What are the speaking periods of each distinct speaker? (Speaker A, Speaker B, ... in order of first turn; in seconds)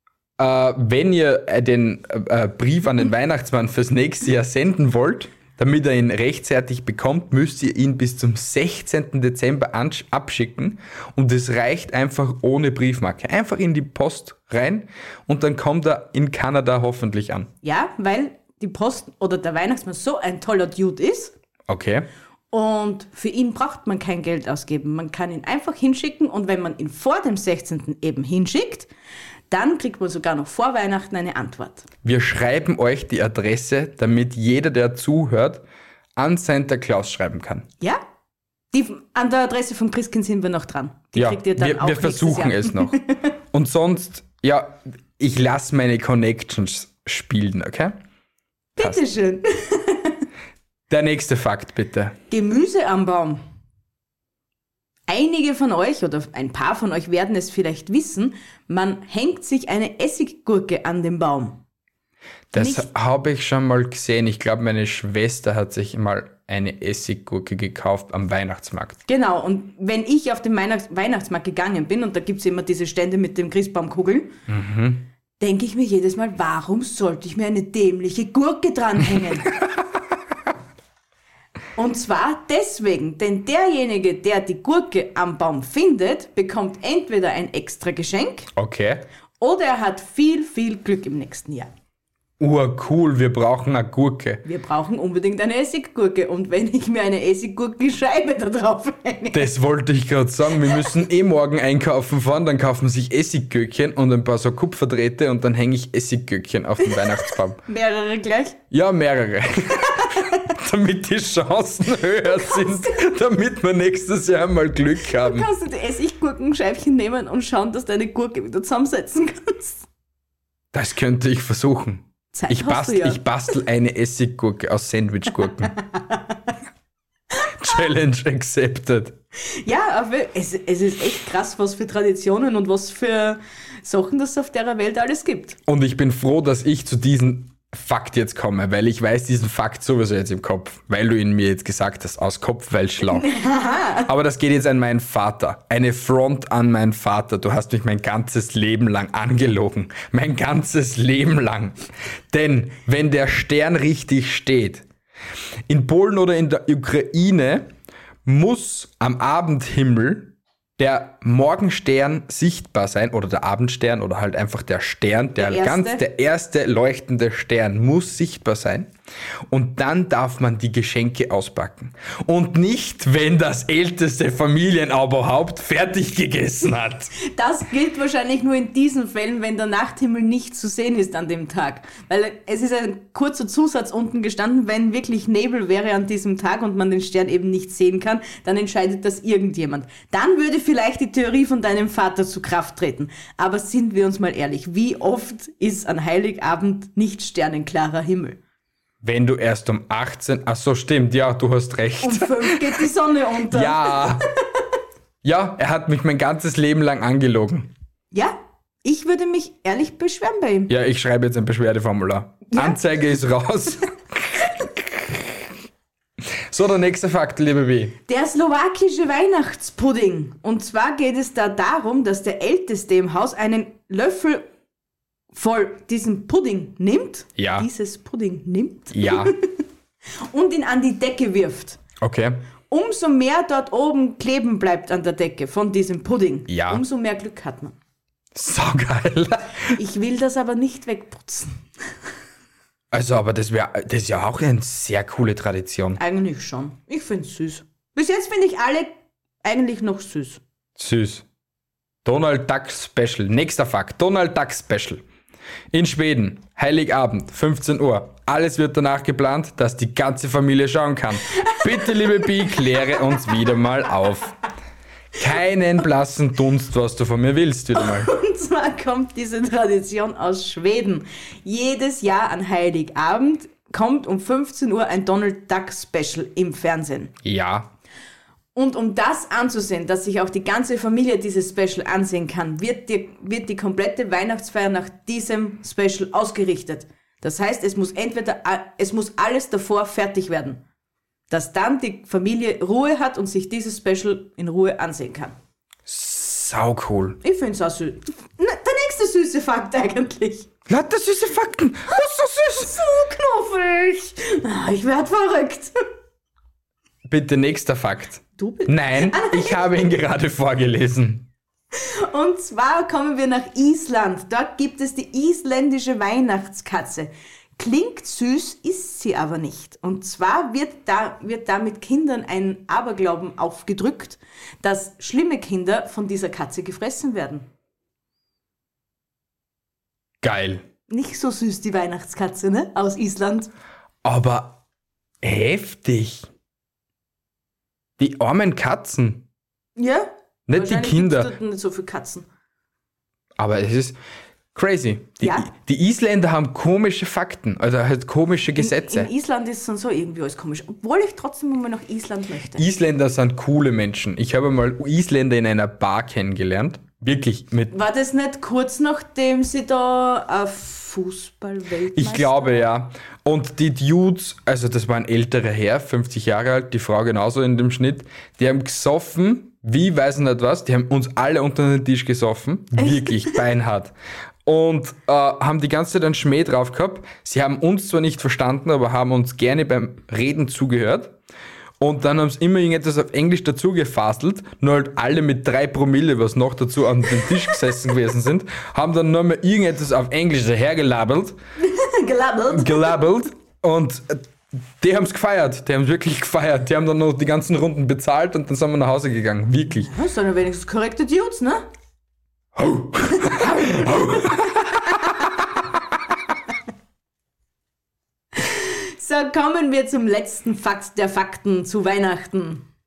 Speaker A: 0.4-17.5, 21.7-22.1, 32.0-35.6, 36.2-37.7, 41.1-43.0, 43.5-48.0, 50.9-52.2, 62.5-69.0, 74.5-75.0, 88.6-89.1, 92.4-94.4, 99.3-107.6, 108.7-115.5, 120.7-125.8, 127.6-129.2, 135.7-143.3, 144.1-151.8, 152.3-154.9, 155.7-157.7, 158.2-168.9, 169.5-177.1, 199.0-202.8, 203.5-204.3, 205.2-207.7, 210.7-215.4, 216.5-218.0, 227.4-227.7, 228.9-229.3, 232.0-232.4, 236.5-236.8, 238.3-239.8, 242.9-246.0, 250.8-251.2, 252.1-255.0, 255.7-264.4, 265.2-268.1, 277.2-277.7, 295.9-297.2, 300.7-302.7, 307.1-311.3, 330.2-330.6, 334.0-334.6, 335.2-336.3, 338.0-339.3, 340.5-341.3, 343.4-344.0, 344.6-349.1, 352.6-357.7, 361.9-373.9, 374.4-381.2, 381.8-391.4, 392.5-394.2, 394.8-399.9, 402.6-404.9
Speaker B: 17.6-21.4, 22.5-28.9, 29.5-31.9, 38.7-43.3, 48.8-50.2, 52.3-53.4, 55.1-61.6, 62.5-62.9, 69.1-74.3, 75.4-79.5, 81.8-88.5, 89.4-91.7, 94.4-99.5, 107.7-108.6, 115.1-119.9, 122.3-123.2, 125.8-126.4, 129.6-135.6, 143.1-144.1, 165.4-166.0, 177.2-198.4, 202.0-204.2, 208.1-210.7, 212.5-212.8, 218.1-224.5, 225.3-229.6, 230.2-231.8, 232.7-237.8, 239.7-241.6, 246.0-250.4, 261.4-262.1, 267.8-277.1, 278.6-290.6, 291.3-295.4, 297.2-300.5, 302.2-305.7, 308.4-309.6, 311.7-327.5, 330.9-333.5, 339.8-342.3, 345.2-345.5, 348.6-352.6, 357.7-362.6, 372.8-373.4, 391.6-393.1, 399.7-401.7, 403.2-404.1, 408.4-412.6